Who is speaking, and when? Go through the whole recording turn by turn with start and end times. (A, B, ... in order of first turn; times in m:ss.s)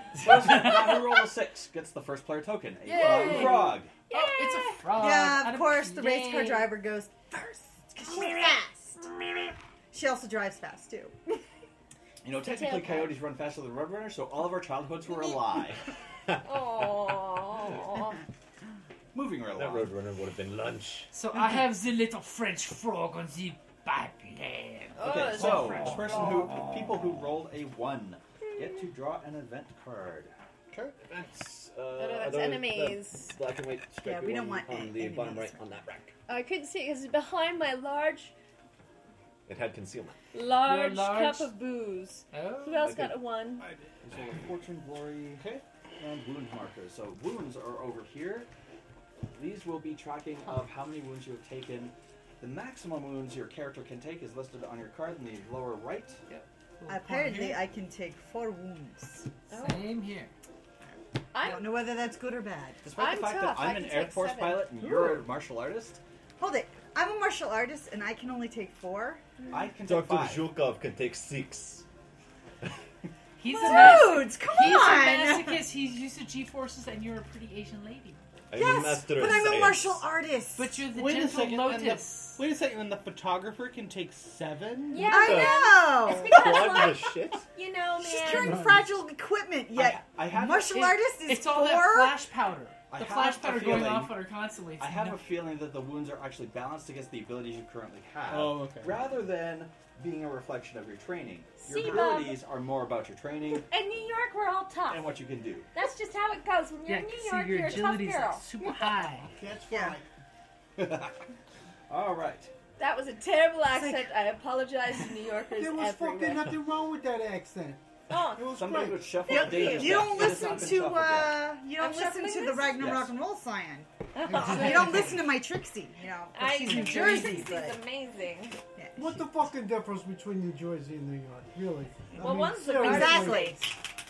0:00.2-0:03.9 A
0:02.8-0:04.9 B
0:02.9-0:06.6 C
0:04.9-0:09.0 D
0:06.4-0:06.7 B
0:08.0-0:08.6 B
0:09.9-0:11.2 D
0:12.2-0:15.8 A
0:12.4-0:13.2 B
0:16.4-0:18.2 B
0:19.1-0:19.9 A
0:19.5-0:21.1 E
0:21.1-0:25.1 C
0:25.0-0:26.3 B
0:25.0-0:30.3 A
0:28.5-0:28.8 B
0:31.0-0:36.2 E
0:31.9-0:33.4 B
0:34.0-0:35.6 D
0:36.3-0:38.3 B
0:39.5-0:40.2 E
0:40.3-0:43.7 B
0:40.6-0:41.5 C
0:42.3-0:42.9 C
0:42.8-0:43.3 E
0:43.6-0:43.9 F
0:44.0-0:45.4 A
0:45.4-0:45.6 F
0:46.0-0:48.5 A
0:49.3-0:56.2 A
0:56.3-0:57.6 C
0:56.9-0:59.3 D
0:59.5-0:59.9 B
0:59.6-1:00.3 C
1:01.3-1:01.9 B
1:01.4-1:02.8 D
1:02.8-1:06.0 A
1:02.9-1:04.8 B
1:06.4-1:09.2 D
1:09.4-1:09.7 B
1:09.5-1:10.5 A
1:09.8-1:11.8 E
1:13.4-1:18.2 C
1:13.5-1:15.6 D
1:13.6-1:14.2 B
1:18.5-1:20.0 E
1:18.5-1:20.8 D
1:20.6-1:22.4 C
1:20.9-1:25.1 F
1:24.9-1:28.8 B
1:25.0-1:26.8 D
1:25.1-1:27.4 E
1:28.0-1:32.2 D
1:28.5-1:28.9 G
1:29.7-1:30.6 A
1:30.4-1:35.2 C
1:32.9-1:34.2 A
1:34.8-1:43.7 A
1:38.2-1:39.0 F
1:41.6-1:42.4 B
1:41.8-1:42.2 D
1:43.5-1:45.2 B
1:44.9-1:45.7 A
1:45.7-1:48.4 B
1:46.8-1:49.3 C
1:49.3-1:50.1 G
1:49.7-1:50.0 D
1:50.8-1:51.1 A
1:51.9-1:52.5 A
1:52.8-1:56.6 B
1:53.7-1:54.1 D
1:55.5-1:59.2 G
1:58.1-2:00.7 B
1:58.5-2:01.5 A
1:59.3-2:07.8 D
2:01.7-2:02.9 B
2:02.8-2:03.1 A
2:04.1-2:05.2 B
2:04.3-2:05.1 G
2:06.3-2:08.6 B
2:06.6-2:07.5 C
2:08.8-2:09.2 D
2:09.0-2:13.6 G
2:12.2-2:13.6 B
2:12.7-2:13.6 D